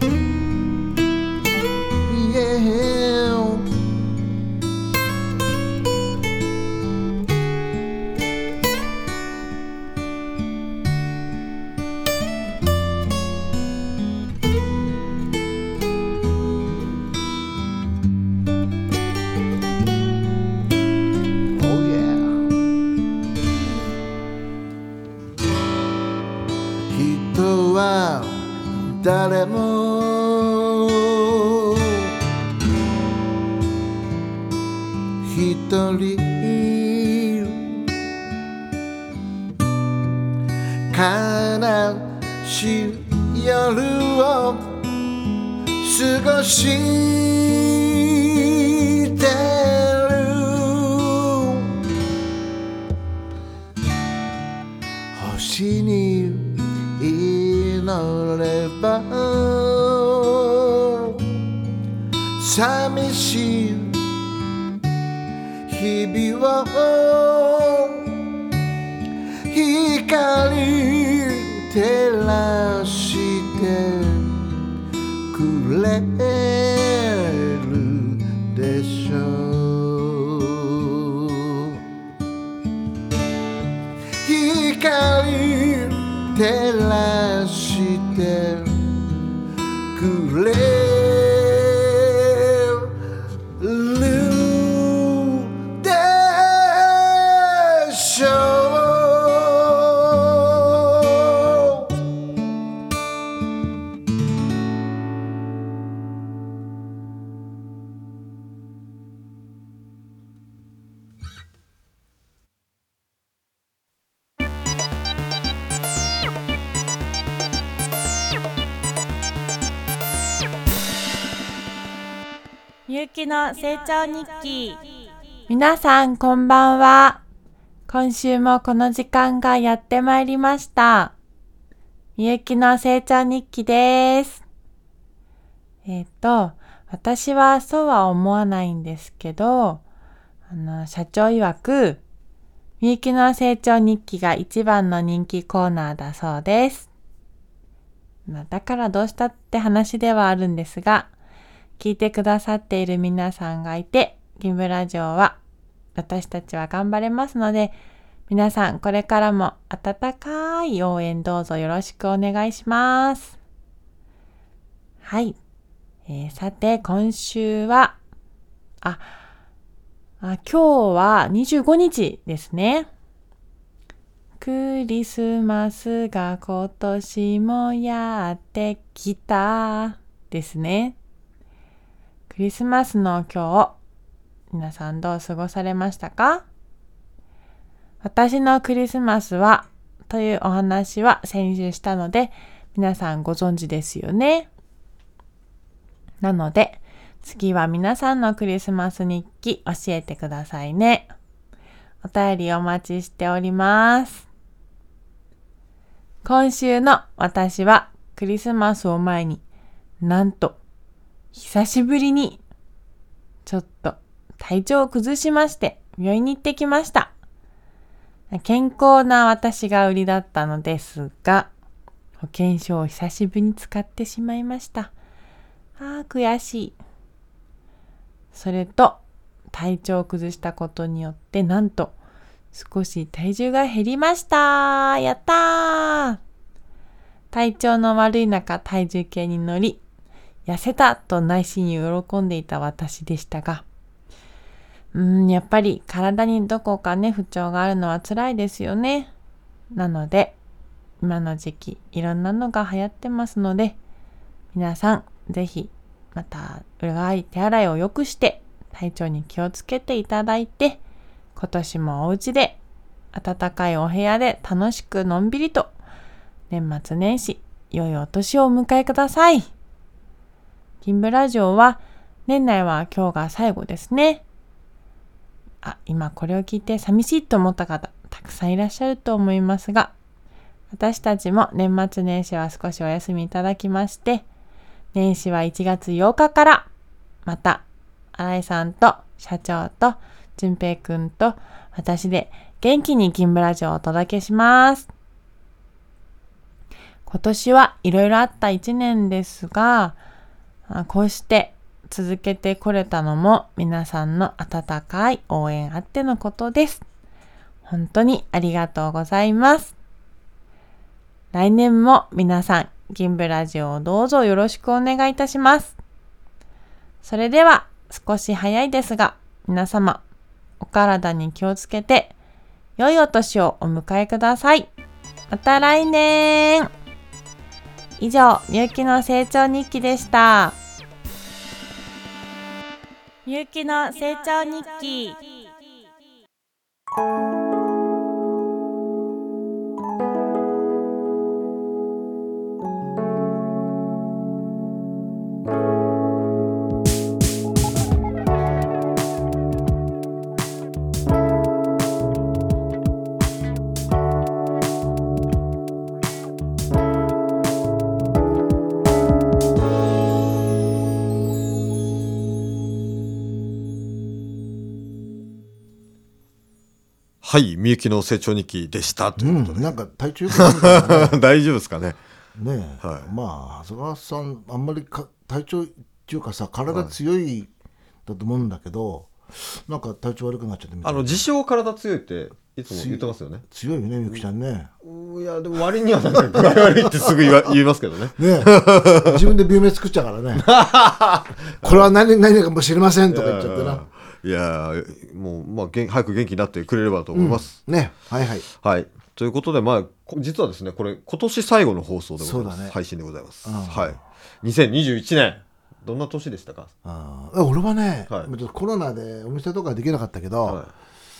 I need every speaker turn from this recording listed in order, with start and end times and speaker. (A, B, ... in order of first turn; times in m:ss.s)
0:02.0-0:03.7 A
0:21.5-0:22.5 A
0:26.9-0:32.1 A
0:35.2-0:37.9 A
0:40.9-0:44.8 A
0:45.8-0:51.8 A
0:55.1-1:01.2 A
1:02.4-1:04.1 A
1:05.7-1:08.2 A
1:09.5-1:14.4 A
1:15.3-1:21.8 A
1:24.2-1:29.0 A
1:29.9-1:42.1 A
2:02.9-2:04.8 B
2:05.5-2:07.2 B
2:07.9-2:11.1 B
2:12.2-2:14.4 B
2:15.8-2:19.8 B
2:20.5-2:22.0 B
2:22.8-2:26.9 B
2:28.3-2:31.1 B
2:31.8-2:35.4 B
2:35.9-2:37.8 B
2:38.3-2:43.4 B
2:45.0-2:45.4 B
2:46.1-2:48.0 B
2:48.8-2:49.1 B
2:50.2-2:52.9 B
2:54.4-3:01.0 B
3:02.3-3:03.7 B
3:04.5-3:06.4 B
3:08.0-3:14.5 B
3:16.2-3:21.1 B
3:22.0-3:24.2 B
3:26.2-3:29.4 B
3:30.0-3:30.6 B
3:31.3-3:32.4 B
3:33.4-3:37.1 B
3:38.3-3:41.5 B
3:42.2-3:44.9 B
3:45.8-3:46.8 B
3:48.3-3:51.9 B
3:52.5-3:56.2 B
3:57.3-3:59.8 B
4:00.4-4:03.6 B
4:04.9-4:09.1 B
4:09.7-4:10.4 B
4:11.0-4:13.8 B
4:14.5-4:20.8 B
4:21.4-4:22.6 B
4:23.1-4:25.7 B
4:26.5-4:29.5 B
4:30.8-4:34.2 B
4:35.6-4:39.9 B
4:40.7-4:44.2 B
4:44.9-4:46.7 B
4:47.2-4:54.9 B
4:57.0-5:00.0 B
5:00.7-5:06.8 B
5:07.6-5:09.7 B
5:11.3-5:15.8 B
5:17.0-5:20.0 B
5:20.6-5:22.1 B
5:22.8-5:24.7 B
5:25.3-5:26.7 B
5:28.0-5:30.6 B
5:33.2-5:35.2 B
6:07.2-6:09.7 C
6:09.2-6:11.2 A
6:10.3-6:12.0 C
6:12.4-6:17.5 A
6:12.8-6:13.1 C
6:18.0-6:21.2 A
6:20.8-6:23.4 C
6:22.7-6:24.7 A
6:24.8-6:29.3 C
6:26.3-6:27.5 A
6:28.2-6:30.5 A
6:30.3-6:31.9 C
6:31.6-6:33.8 A
6:33.1-6:37.6 C
6:37.1-6:38.5 A
6:38.6-6:46.7 C
6:42.2-6:42.7 A
6:43.4-6:44.0 A
6:46.8-6:50.6 A
6:50.4-6:50.7 C